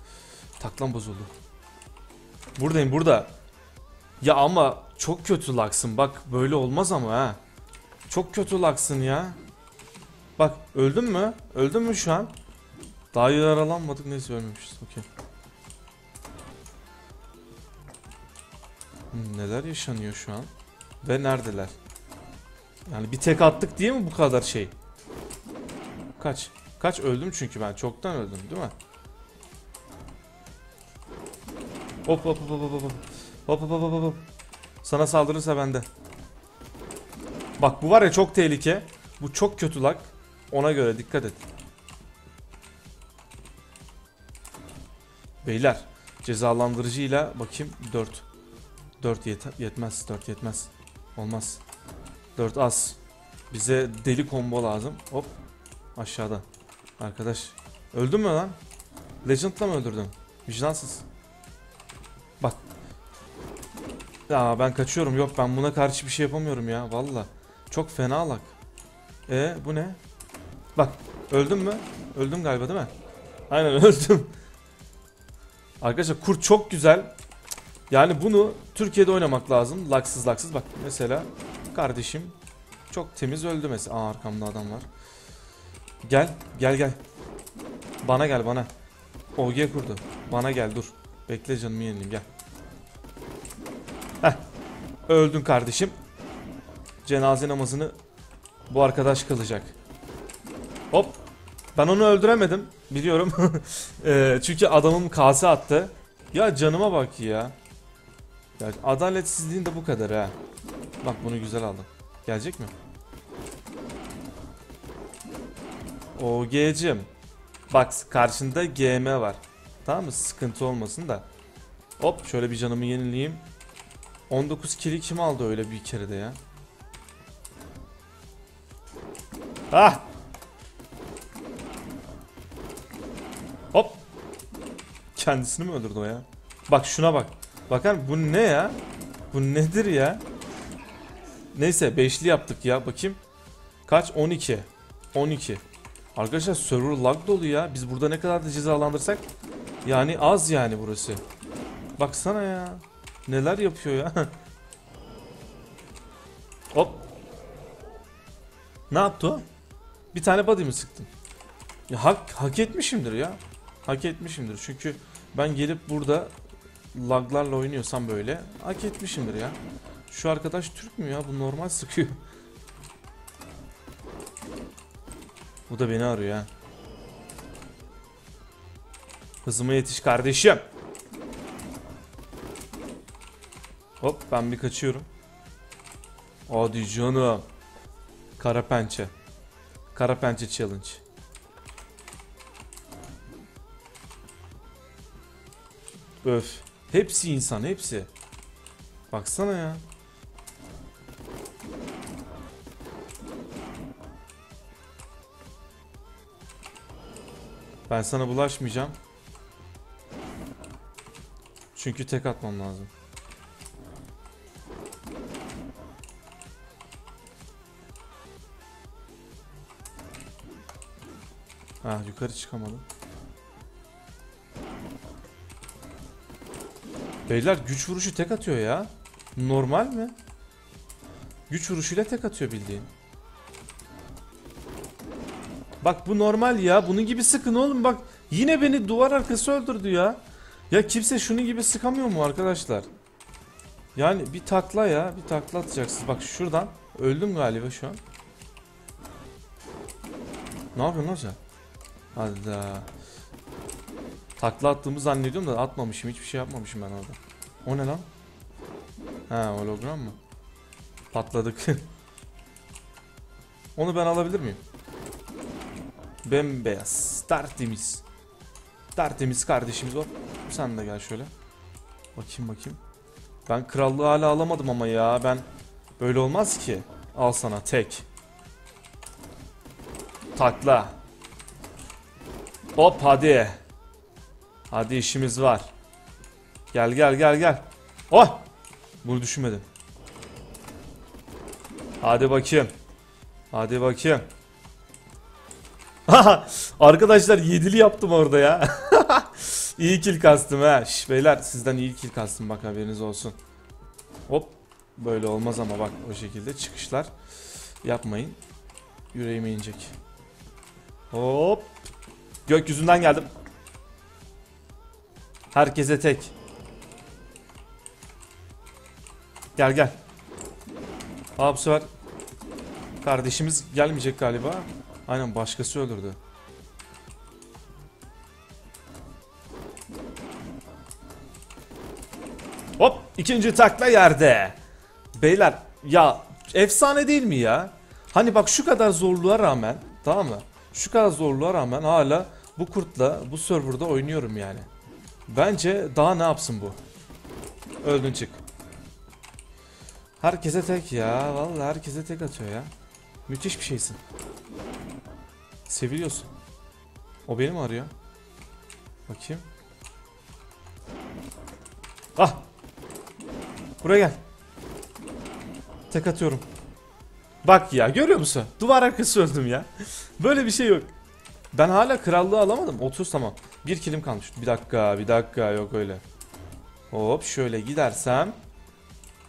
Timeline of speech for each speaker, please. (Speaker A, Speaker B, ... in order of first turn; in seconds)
Speaker A: 0.6-1.3, 2.6-3.3, 4.2-7.4, 8.1-9.4, 10.4-12.3, 13.1-15.1, 19.1-20.5, 21.0-21.7, 22.9-24.7, 26.2-28.7, 32.0-34.2, 34.8-35.9, 37.6-41.4, 45.4-48.2, 49.0-51.6, 52.4-53.0, 53.5-55.3, 56.0-56.4, 57.0-58.6, 59.2-61.0, 64.3-68.5, 69.3-70.0, 70.7-72.9, 73.5-74.3, 75.8-77.1, 77.9-82.3, 82.9-84.9, 86.0-87.0, 88.0-88.7, 89.3-92.2, 95.1-95.9, 97.0-97.9, 98.7-99.7, 100.9-101.2, 101.7-107.5, 108.6-110.3, 111.0-112.7, 116.2-117.1, 117.7-121.2, 122.0-123.4, 124.3-126.4, 129.7-130.1, 133.7-134.0, 135.1-140.2, 141.5-143.2, 143.8-145.6, 146.1-149.2, 149.8-151.2, 152.0-154.3, 156.7-157.0, 158.9-159.4, 160.1-161.1, 161.9-166.3, 166.9-169.6, 170.1-172.2, 175.7-176.5, 179.4-180.7, 184.0-185.1, 186.5-187.4, 188.4-189.1, 189.9-191.0, 196.2-198.1, 199.1-199.8, 207.9-208.9, 211.7-212.9, 221.8-222.8, 227.3-230.1, 231.5-232.9, 235.8-242.9, 243.9-248.0, 250.7-251.4, 252.1-252.9, 254.4-258.1, 259.3-260.2, 261.1-261.9, 263.8-264.6, 266.2-268.0, 268.9-271.3, 272.1-272.8, 273.4-275.4, 276.0-278.0, 280.3-280.9, 282.8-283.6, 284.7-285.7, 286.7-288.5, 289.0-289.6, 292.0-292.7, 293.5-294.3, 296.1-303.4, 304.3-307.1, 307.8-308.4, 309.1-309.9, 311.1-311.8, 312.4-313.3, 315.5-316.3, 319.6-320.0, 321.4-321.9, 323.0-326.2, 332.8-334.6, 335.1-344.7, 345.3-346.8, 347.8-348.4, 350.2-352.7, 353.3-354.0, 355.7-356.3, 357.2-357.9, 359.1-359.4, 362.1-362.4, 363.8-364.2, 365.9-366.4, 367.4-370.9, 371.5-376.0, 376.9-378.4